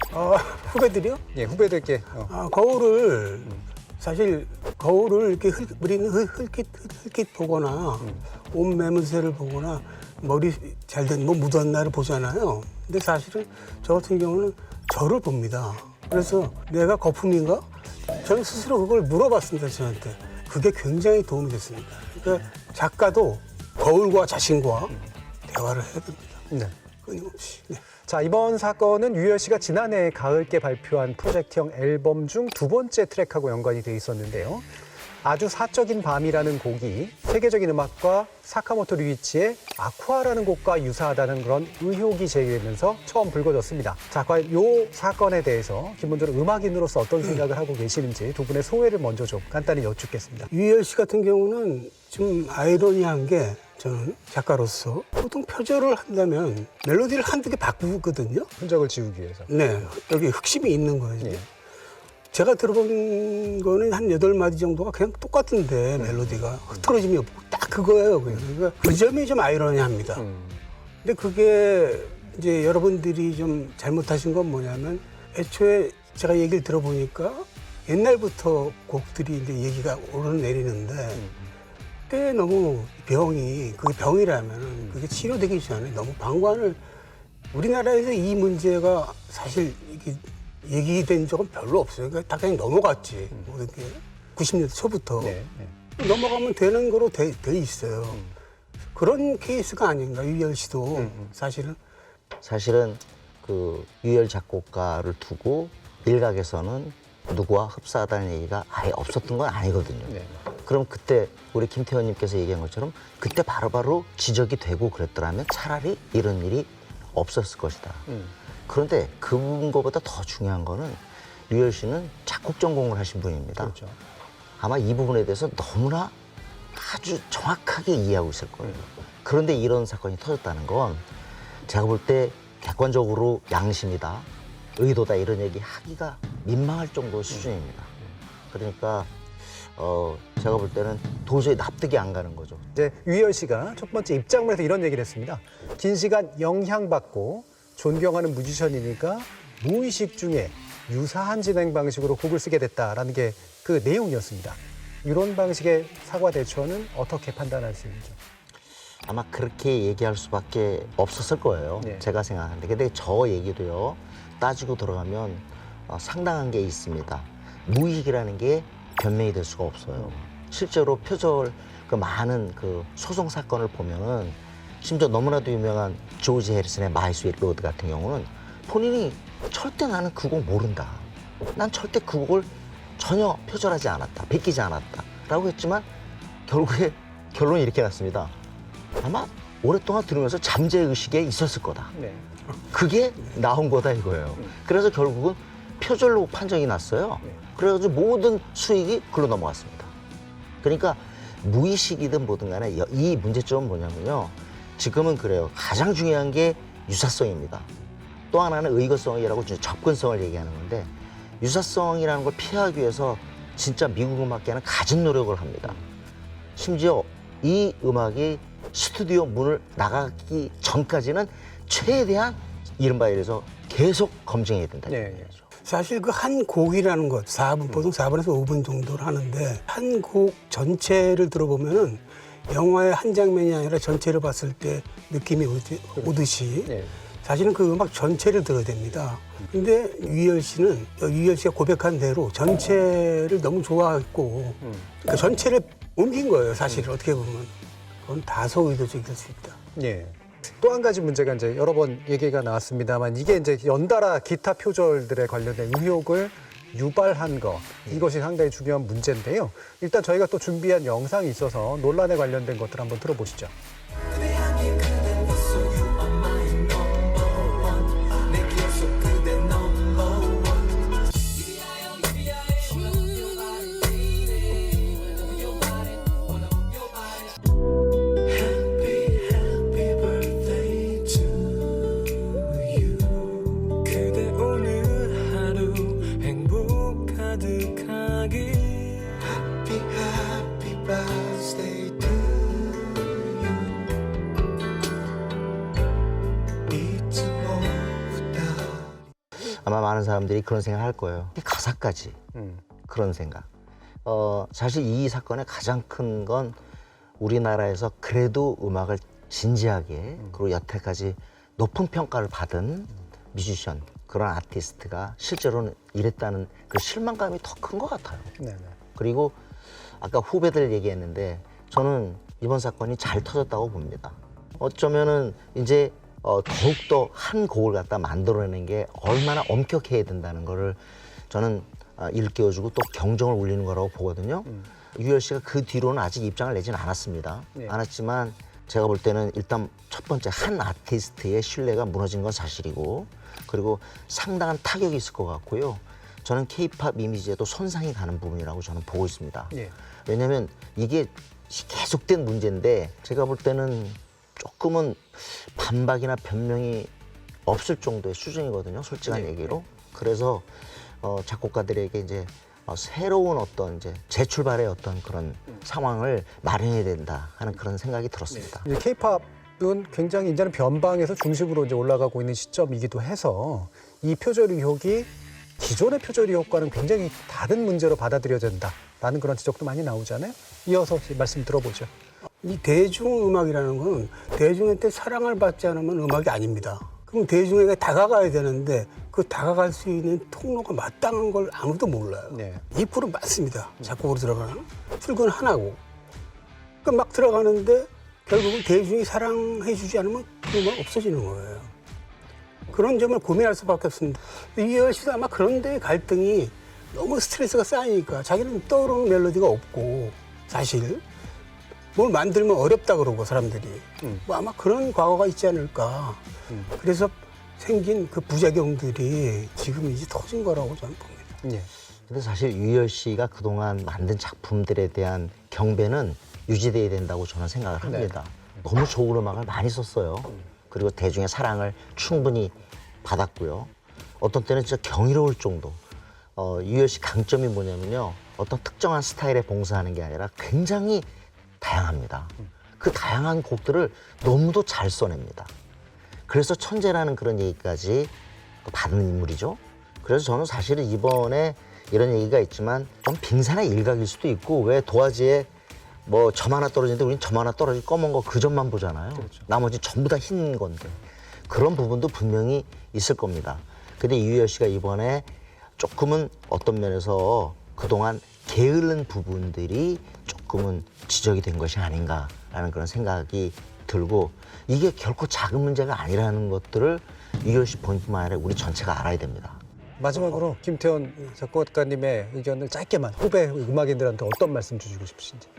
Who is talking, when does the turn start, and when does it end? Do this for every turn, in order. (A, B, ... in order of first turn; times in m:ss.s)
0:00.1-0:01.3 A
0:01.3-0:02.3 B
0:02.3-0:26.4 A
0:27.0-0:27.8 A
0:28.0-0:34.6 B
0:35.2-0:50.5 B
0:50.5-0:58.5 A
0:58.6-0:59.5 B
0:59.5-1:01.4 A
1:02.3-1:10.2 A
1:06.0-1:06.9 B
1:10.2-1:10.6 B
1:11.0-1:21.3 A
1:22.1-1:26.8 A
1:27.5-1:35.4 A
1:35.2-1:35.7 B
1:36.0-1:38.2 A
1:38.9-1:41.8 A
1:41.0-1:41.3 B
1:42.4-1:58.1 C
1:58.7-2:03.8 C
2:03.6-2:04.0 B
2:04.6-2:06.1 C
2:06.7-2:11.0 C
2:11.6-2:17.9 C
2:18.5-2:22.6 C
2:22.7-2:38.2 B
2:39.0-3:05.9 C
2:41.8-2:42.0 B
3:06.5-3:08.3 C
3:09.0-3:12.0 C
3:11.9-3:12.2 B
3:12.7-3:19.9 C
3:20.6-3:27.7 C
3:28.3-3:35.8 C
3:36.6-3:45.4 C
3:44.9-3:45.3 B
3:45.6-4:09.6 A
3:56.0-3:56.9 B
4:04.6-4:04.9 B
4:09.8-4:23.5 B
4:24.1-4:37.3 D
4:33.0-4:33.3 B
4:38.2-4:53.9 D
4:43.8-4:49.2 B
4:56.6-4:59.0 D
4:59.4-5:02.2 C
5:02.9-5:03.5 C
5:04.0-5:06.6 C
5:07.2-5:18.4 C
5:18.4-5:18.7 B
5:18.9-5:19.4 C
5:20.0-5:30.8 C
5:31.3-5:56.9 C
5:57.4-6:08.7 C
6:08.5-6:21.9 B
6:22.4-6:35.8 A
6:32.3-6:32.6 B
6:36.8-6:41.7 A
6:42.7-6:51.0 A
6:51.9-7:01.3 A
7:01.4-7:01.7 B
7:02.1-7:15.8 C
7:07.8-7:08.1 B
7:16.4-7:21.1 C
7:21.6-7:25.5 C
7:26.3-7:28.1 C
7:28.6-7:35.5 C
7:36.0-7:59.6 C
8:00.0-8:05.5 B